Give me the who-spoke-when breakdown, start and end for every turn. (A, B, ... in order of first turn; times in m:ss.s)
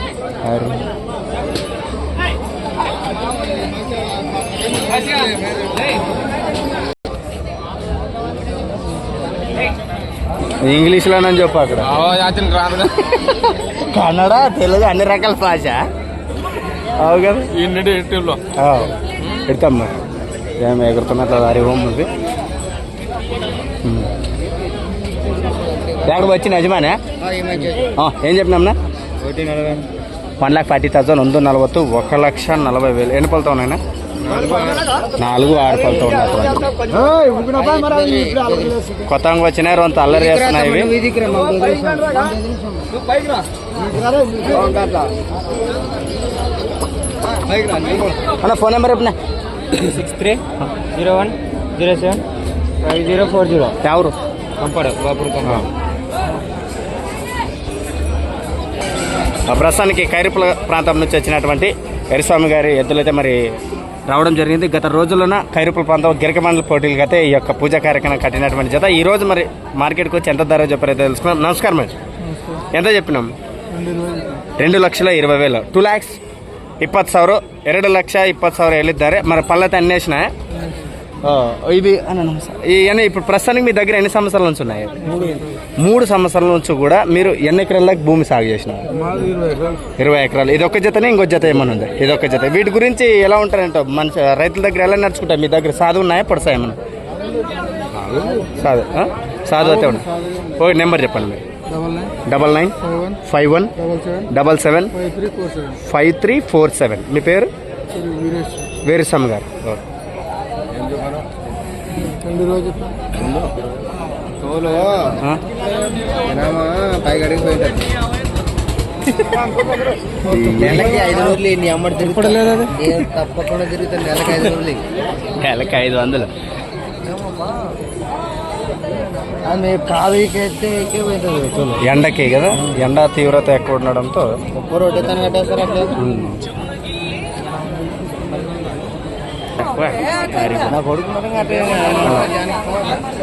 0:00.4-0:00.8 A
0:10.6-0:12.0 A
0:12.0-0:13.0 B
0:13.2-0:15.8 A
0:17.0-0:17.5 A
0:17.5-0:18.4 B
0:18.5-0:18.9 A
0:19.5-0:19.9 A
0:20.6-0:22.1 A
0:23.8-0:24.1 A
0:25.5-0:26.0 C
0:26.0-0:27.0 A
0:27.2-0:27.9 C
0:27.9-0:28.8 A
0:29.2-0:29.8 C
0:30.4-0:33.8 A
0:34.3-0:34.8 C
0:35.2-0:36.7 A
0:36.8-0:38.9 C
0:39.0-0:40.9 A
0:40.1-0:42.9 C
0:43.9-0:45.1 C
0:47.4-0:48.1 C
0:48.4-0:49.2 A
0:49.8-0:50.4 B
0:50.9-0:52.2 B
0:51.0-0:52.1 C
0:52.8-0:53.6 C
0:52.8-0:53.7 B
0:53.8-0:54.2 A
0:54.6-0:55.6 B
0:54.6-0:55.4 C
0:55.4-0:55.7 A
0:59.5-1:11.9 A
1:12.7-1:13.3 A
1:13.7-1:14.4 B
1:14.6-1:16.2 A
1:16.8-1:20.3 A
1:21.2-1:25.2 A
1:25.8-1:28.9 A
1:29.1-1:29.5 B
1:30.0-1:36.8 A
1:38.2-1:41.4 A
1:41.7-1:42.1 B
1:42.2-1:43.7 A
1:43.9-1:44.2 B
1:44.3-1:44.9 A
1:45.0-1:45.7 B
1:45.8-1:47.5 A
1:48.0-1:48.7 B
1:48.8-1:49.8 A
1:52.2-1:53.1 B
1:54.4-1:55.2 C
1:56.2-1:57.9 C
2:00.2-2:01.1 A
2:00.3-2:04.8 C
2:02.3-2:02.7 B
2:05.4-2:06.3 A
2:09.4-2:11.8 C
2:11.8-2:14.3 A
2:14.5-2:15.9 C
2:16.0-2:16.5 A
2:19.6-2:20.8 A
2:20.7-2:22.8 C
2:22.0-2:22.3 A